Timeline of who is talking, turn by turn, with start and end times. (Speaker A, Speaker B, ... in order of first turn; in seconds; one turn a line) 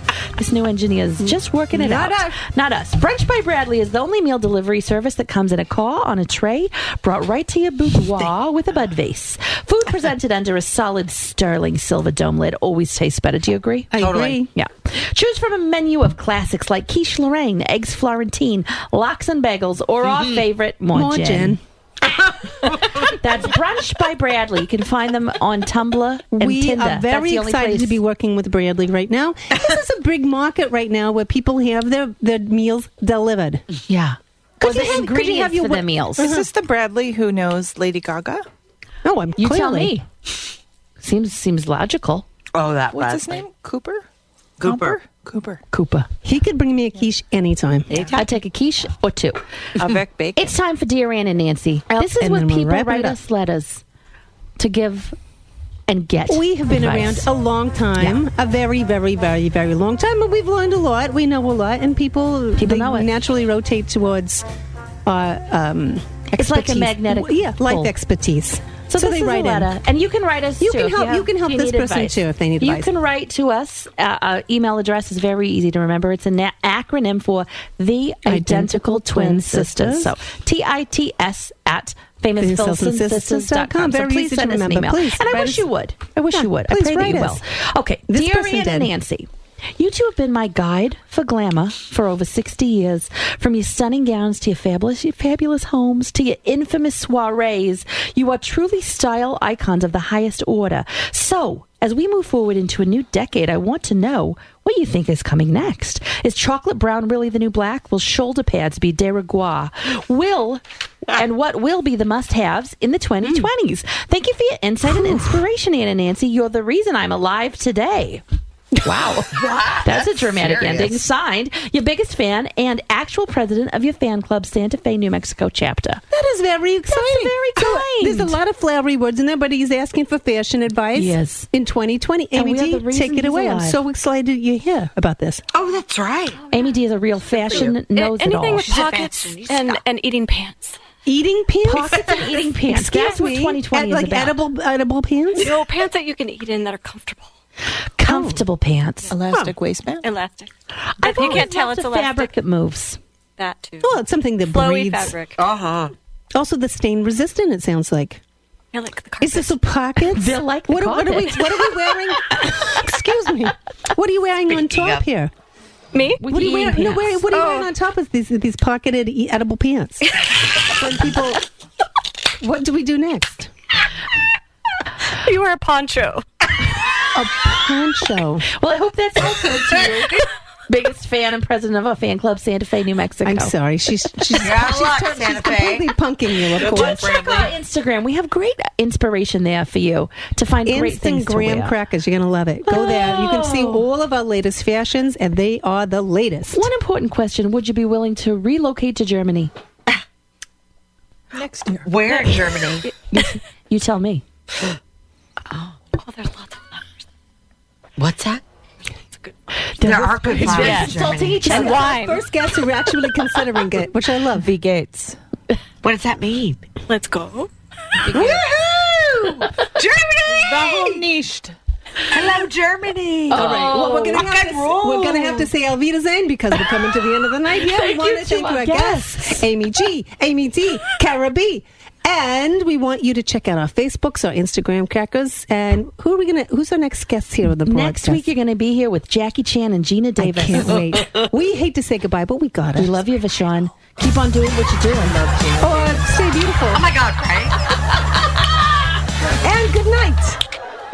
Speaker A: 0.4-21.6
Speaker B: 1.2-2.4
Speaker B: 13.9-14.5
Speaker C: 14.0-14.4
Speaker C: 20.1-20.4
Speaker B: 20.9-21.6
Speaker A: 22.7-28.0
Speaker B: 26.3-33.6
Speaker A: 33.9-36.3
Speaker B: 34.6-36.5
Speaker D: 36.2-38.5
Speaker B: 39.0-39.9
Speaker A: 39.4-40.1
Speaker A: 41.0-42.3
Speaker C: 42.5-43.4
Speaker D: 42.9-44.1
Speaker C: 44.6-45.0
Speaker D: 44.6-45.6
Speaker A: 45.7-46.1
Speaker B: 46.2-48.1
Speaker D: 47.9-48.3
Speaker A: 48.1-49.5
Speaker D: 49.8-50.5
Speaker A: 50.4-53.8
Speaker B: 51.9-53.2
Speaker A: 54.6-55.2
Speaker A: 55.9-57.3
Speaker B: 56.3-64.5
Speaker A: 62.6-63.1
Speaker B: 65.1-69.7
Speaker A: 66.3-67.9
Speaker A: 68.9-118.2
Speaker B: 70.6-72.9
Speaker B: 78.3-80.1
Speaker B: 82.4-85.7
Speaker B: 86.3-87.4
Speaker B: 88.1-88.9
Speaker B: 113.2-113.5
Speaker B: 114.9-115.4
Speaker A: 118.8-126.0
Speaker C: 119.3-121.0
Speaker B: 126.1-135.4
Speaker A: 126.9-128.4
Speaker A: 130.9-131.5
Speaker A: 132.3-133.8
Speaker C: 135.5-136.4
Speaker E: 136.4-136.8
Speaker A: 136.5-138.8
Speaker C: 137.4-137.8
Speaker E: 137.5-140.8
Speaker C: 138.6-139.8
Speaker B: 141.1-145.6
Speaker A: 141.6-144.4
Speaker E: 145.4-147.3
Speaker A: 148.0-149.1
Speaker B: 148.1-148.4
Speaker D: 149.1-150.1
Speaker E: 150.0-152.3
Speaker A: 150.9-153.0
Speaker B: 151.2-151.4
Speaker E: 153.4-155.4
Speaker B: 153.8-155.2
Speaker C: 155.4-155.9
Speaker B: 156.3-158.2
Speaker E: 158.7-159.6
Speaker B: 159.2-165.3
Speaker A: 160.1-161.5
Speaker C: 164.5-165.0
Speaker E: 165.9-166.3
Speaker A: 166.2-167.3
Speaker B: 166.2-171.4
Speaker E: 167.3-167.7
Speaker B: 172.4-173.5
Speaker E: 175.2-176.2
Speaker B: 177.1-178.5
Speaker A: 178.5-183.5
Speaker B: 183.2-187.1
Speaker C: 184.3-185.9
Speaker C: 186.5-187.6
Speaker A: 186.6-191.8
Speaker B: 190.7-196.7
Speaker A: 192.7-193.8
Speaker A: 196.5-199.5
Speaker D: 201.3-201.9
Speaker C: 201.8-202.9
Speaker A: 203.1-204.2
Speaker C: 205.5-205.8
Speaker E: 205.9-206.9
Speaker C: 208.0-208.4
Speaker A: 209.8-211.9
Speaker C: 209.8-211.7
Speaker B: 210.4-210.9
Speaker E: 211.4-212.2
Speaker B: 211.5-214.5
Speaker D: 214.3-215.2
Speaker C: 215.8-216.7
Speaker E: 216.9-217.5
Speaker D: 218.0-218.4
Speaker C: 218.1-221.0
Speaker D: 220.3-221.6
Speaker C: 222.1-225.5
Speaker A: 223.3-224.3
Speaker B: 223.3-238.3
Speaker A: 227.6-229.5
Speaker A: 237.7-240.8
Speaker B: 240.2-243.0
Speaker C: 240.9-241.3
Speaker A: 242.8-246.1
Speaker B: 245.6-246.8
Speaker C: 246.7-247.6
Speaker B: 249.4-250.4